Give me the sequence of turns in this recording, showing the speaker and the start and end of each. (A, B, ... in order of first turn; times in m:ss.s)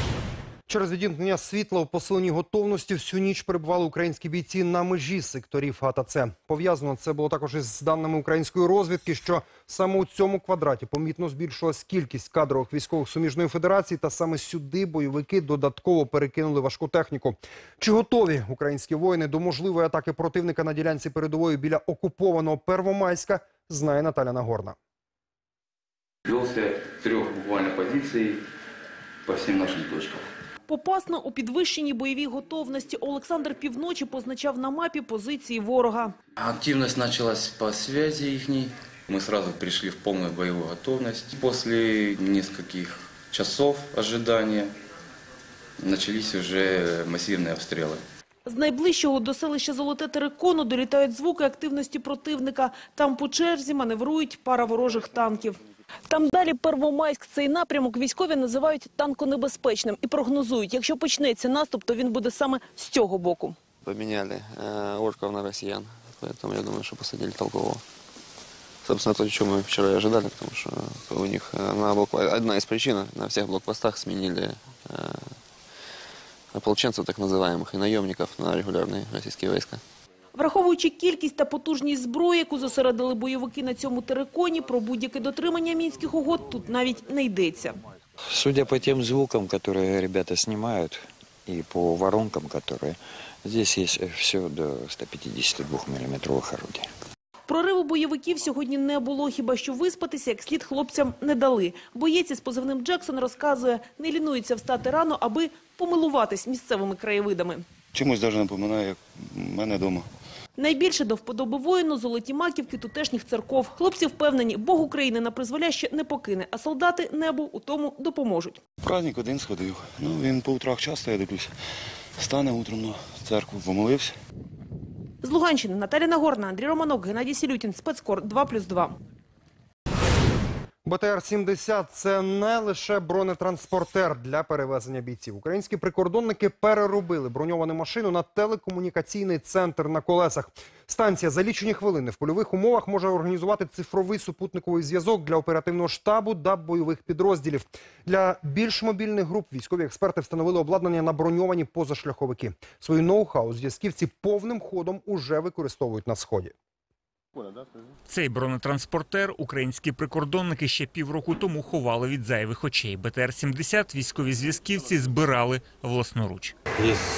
0:00.7-0:24.7 A
0:26.3-0:28.4 B
0:29.3-0:30.2 B
0:30.7-0:36.1 C
0:36.4-0:44.7 B
0:45.8-0:48.0 B
0:48.4-1:03.6 C
1:03.8-1:07.8 D
1:08.8-1:15.2 D
1:16.5-1:19.8 D
1:20.3-1:27.8 C
1:28.3-1:36.8 E
1:37.5-1:47.6 C
1:47.9-1:50.1 F
1:50.6-1:58.6 C
1:58.8-2:01.5 F
2:02.2-2:04.1 F
2:05.2-2:09.0 C
2:10.8-2:36.5 A
2:38.1-2:46.5 G